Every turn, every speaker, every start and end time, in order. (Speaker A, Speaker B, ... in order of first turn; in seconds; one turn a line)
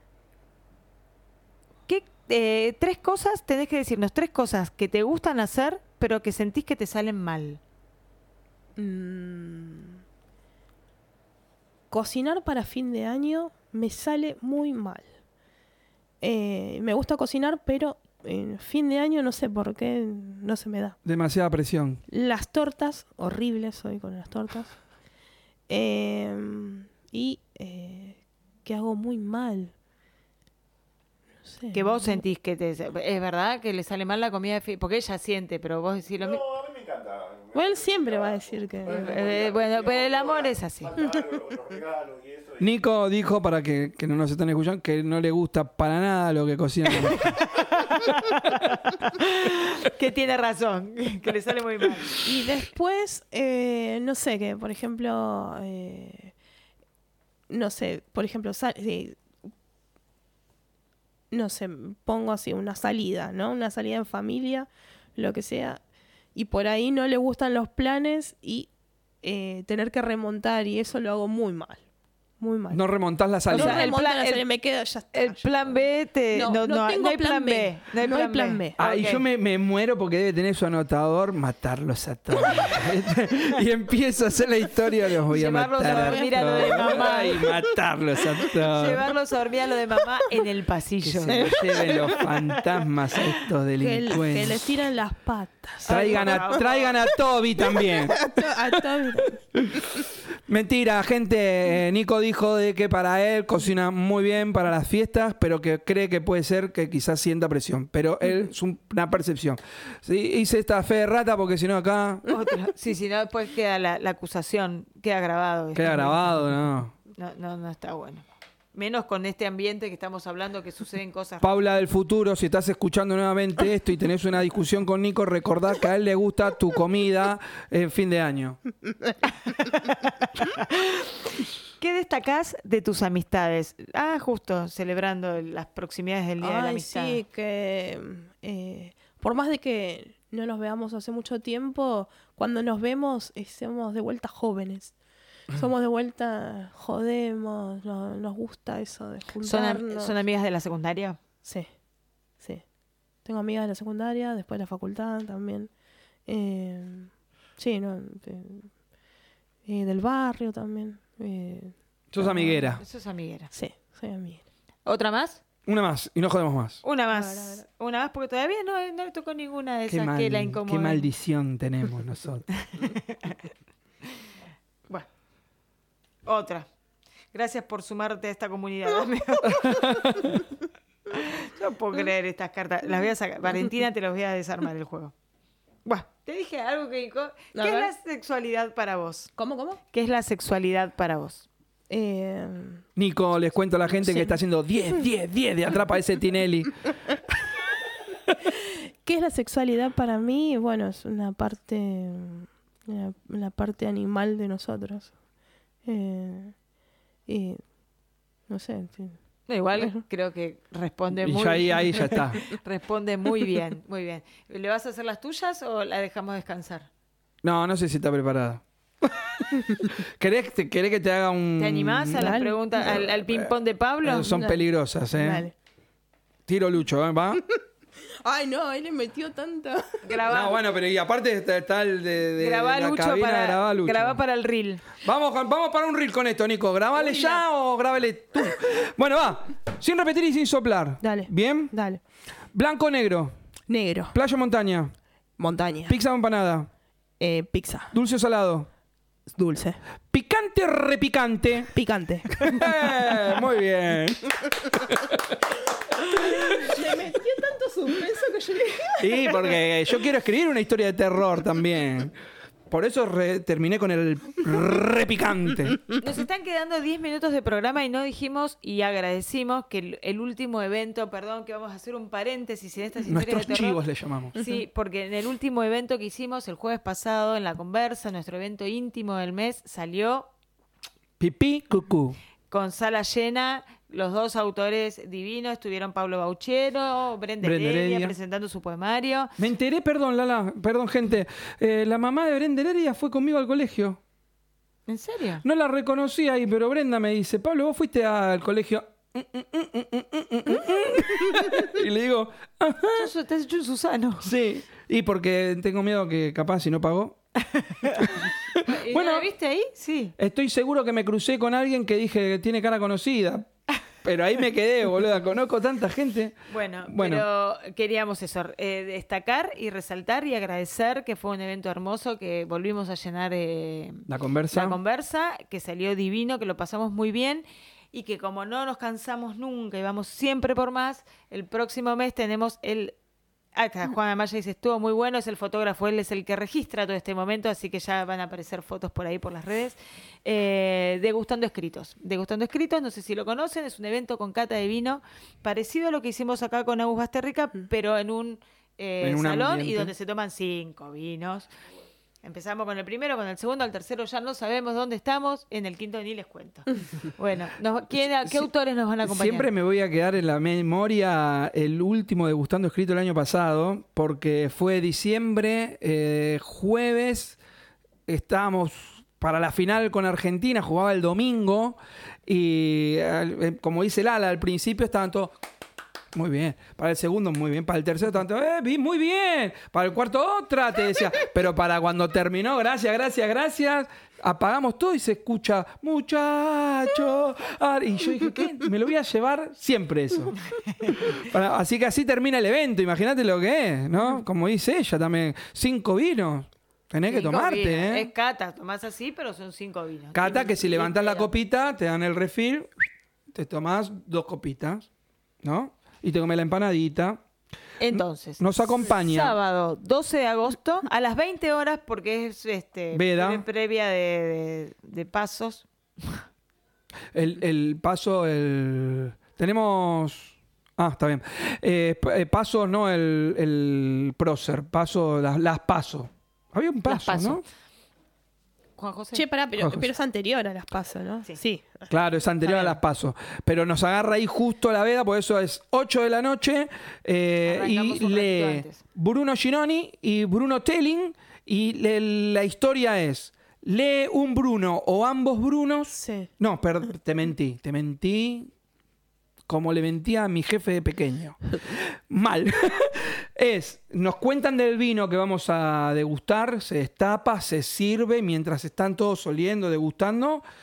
Speaker A: 1.9-7.6
Speaker B: 8.8-10.0
Speaker B: 11.9-15.1
Speaker B: 16.2-21.0
Speaker C: 21.0-22.0
Speaker B: 22.1-24.8
Speaker B: 25.7-29.7
Speaker B: 31.4-32.2
Speaker A: 31.7-36.4
Speaker D: 36.2-42.7
Speaker B: 37.5-39.1
Speaker A: 38.9-40.9
Speaker C: 42.6-47.3
Speaker A: 47.0-52.2
Speaker B: 52.2-56.3
Speaker B: 57.5-59.2
Speaker B: 61.3-65.8
Speaker B: 66.3-68.7
Speaker B: 69.2-71.8
Speaker B: 72.4-72.8
Speaker C: 72.7-73.9
Speaker B: 73.5-75.8
Speaker A: 73.5-74.4
Speaker A: 75.1-79.2
Speaker B: 76.3-78.8
Speaker C: 78.8-89.0
Speaker A: 85.3-87.5
Speaker B: 85.9-87.7
Speaker A: 88.6-92.5
Speaker C: 91.0-94.7
Speaker B: 91.3-92.2
Speaker B: 93.8-96.5
Speaker A: 95.8-97.0
Speaker C: 95.9-98.5
Speaker B: 97.7-99.4
Speaker C: 99.5-99.8
Speaker C: 100.5-112.3
Speaker A: 112.3-116.3
Speaker C: 115.7-116.9
Speaker A: 117.1-121.6
Speaker C: 121.4-128.6
Speaker B: 128.9-129.2
Speaker A: 129.7-131.1
Speaker A: 131.8-137.2
Speaker B: 136.4-144.9
Speaker B: 145.5-150.1
Speaker A: 149.4-151.2
Speaker B: 153.2-155.7
Speaker B: 156.3-158.7
Speaker B: 159.7-162.8
Speaker C: 162.1-162.8
Speaker A: 162.8-163.5
Speaker B: 163.5-164.4
Speaker A: 164.8-165.4
Speaker C: 165.7-166.8
Speaker A: 166.8-171.1
Speaker B: 167.1-167.6
Speaker C: 169.9-172.5
Speaker A: 172.7-173.4
Speaker A: 176.2-176.7
Speaker A: 177.3-180.0
Speaker C: 179.5-180.3
Speaker A: 181.1-185.1
Speaker A: 185.8-189.3
Speaker B: 187.5-187.9
Speaker B: 189.3-189.8
Speaker A: 189.9-191.4
Speaker B: 191.9-192.8
Speaker C: 192.9-196.8
Speaker B: 194.0-194.3
Speaker B: 198.5-205.1
Speaker B: 205.8-206.5
Speaker B: 207.3-207.6
Speaker B: 208.5-209.2
Speaker A: 209.5-216.9
Speaker C: 211.2-212.4
Speaker C: 217.4-223.5
Speaker A: 221.6-224.3
Speaker B: 222.2-222.8
Speaker C: 224.0-225.5
Speaker B: 224.2-224.6
Speaker B: 225.1-225.5
Speaker C: 226.5-227.4
Speaker B: 228.2-230.1
Speaker A: 230.0-230.6
Speaker C: 230.2-234.2
Speaker A: 232.4-234.9
Speaker C: 235.0-241.7
Speaker B: 237.0-237.4
Speaker B: 241.0-242.0
Speaker C: 242.5-243.3
Speaker B: 243.7-244.2
Speaker C: 244.1-244.9
Speaker B: 245.4-246.0
Speaker C: 245.9-246.7
Speaker B: 247.2-247.9
Speaker C: 247.9-248.7
Speaker B: 249.3-249.8
Speaker C: 250.1-251.7
Speaker B: 251.7-252.7
Speaker C: 252.3-255.2
Speaker B: 256.0-259.4
Speaker C: 259.0-262.1
Speaker C: 262.7-265.8
Speaker A: 266.0-273.8
Speaker C: 273.0-274.4
Speaker A: 274.3-280.3
Speaker C: 281.2-282.2
Speaker A: 282.5-289.3
Speaker C: 287.4-288.1
Speaker C: 289.4-294.0
Speaker A: 294.9-295.4
Speaker C: 295.4-303.1
Speaker A: 302.9-304.3
Speaker C: 304.2-307.2
Speaker A: 307.4-310.1
Speaker C: 308.0-309.3
Speaker C: 310.2-313.5
Speaker C: 314.0-316.4
Speaker A: 316.5-332.9
Speaker C: 316.9-317.2
Speaker C: 324.1-324.8
Speaker A: 333.5-351.5
Speaker C: 349.0-349.9
Speaker A: 352.2-359.5
Speaker C: 359.0-367.4
Speaker C: 368.1-375.4
Speaker C: 376.1-390.4
Speaker A: 390.6-391.1
Speaker C: 391.0-398.1
Speaker A: 397.1-401.3
Speaker C: 400.1-402.7
Speaker C: 403.3-404.9
Speaker C: 405.4-407.2
Speaker A: 407.8-416.2
Speaker C: 407.9-409.4
Speaker C: 412.9-413.4
Speaker C: 417.1-427.4
Speaker A: 426.9-427.4
Speaker A: 428.8-429.3
Speaker B: 429.1-431.9
Speaker C: 429.6-429.9
Speaker C: 431.9-448.5
Speaker A: 432.4-432.8
Speaker A: 437.4-438.8
Speaker B: 445.9-446.3
Speaker C: 449.5-460.4